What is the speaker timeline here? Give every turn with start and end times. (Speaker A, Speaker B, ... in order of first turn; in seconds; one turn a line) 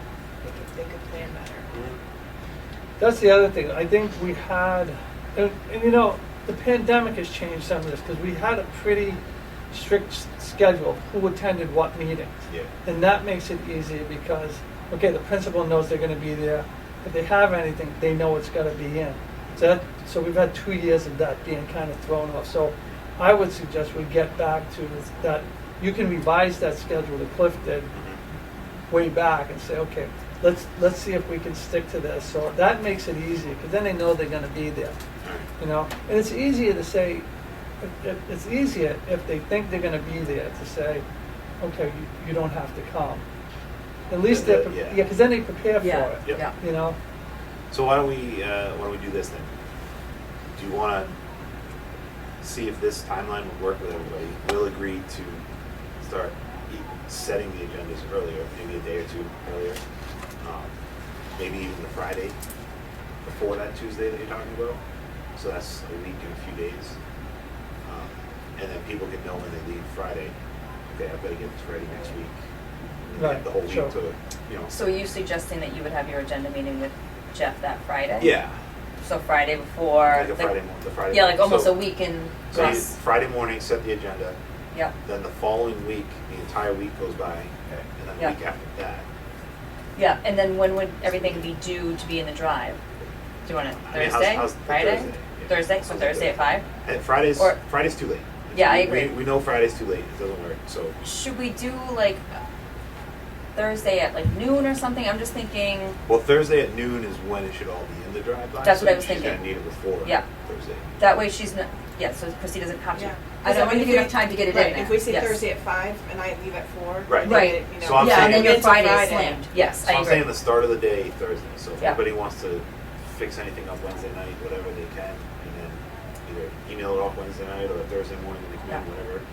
Speaker A: 0.4-1.7
Speaker B: 3.0-9.2
Speaker B: 9.7-27.9
Speaker C: 27.9-28.2
Speaker B: 28.9-35.0
Speaker C: 35.2-35.5
Speaker B: 35.6-37.2
Speaker B: 37.8-41.0
Speaker B: 41.6-43.2
Speaker B: 44.1-47.0
Speaker C: 44.2-45.0
Speaker D: 45.8-46.5
Speaker C: 47.7-49.5
Speaker C: 50.5-51.1
Speaker C: 52.4-55.4
Speaker C: 56.0-59.8
Speaker C: 60.4-60.7
Speaker C: 61.4-62.4
Speaker C: 63.2-64.8
Speaker C: 65.3-66.9
Speaker C: 67.8-70.3
Speaker C: 70.9-72.4
Speaker C: 73.1-74.7
Speaker B: 73.2-73.9
Speaker D: 74.7-78.3
Speaker C: 78.2-78.5
Speaker D: 79.0-82.9
Speaker C: 80.1-81.8
Speaker C: 82.5-84.4
Speaker B: 82.5-82.8
Speaker C: 85.0-89.0
Speaker D: 90.0-92.8
Speaker C: 91.0-91.5
Speaker D: 93.4-96.7
Speaker C: 93.8-101.0
Speaker D: 98.5-99.2
Speaker D: 101.0-102.2
Speaker D: 103.5-106.0
Speaker C: 106.1-111.0
Speaker D: 108.6-110.2
Speaker D: 111.0-115.4
Speaker A: 112.9-119.8
Speaker C: 117.1-118.7
Speaker D: 117.2-120.4
Speaker C: 119.8-129.2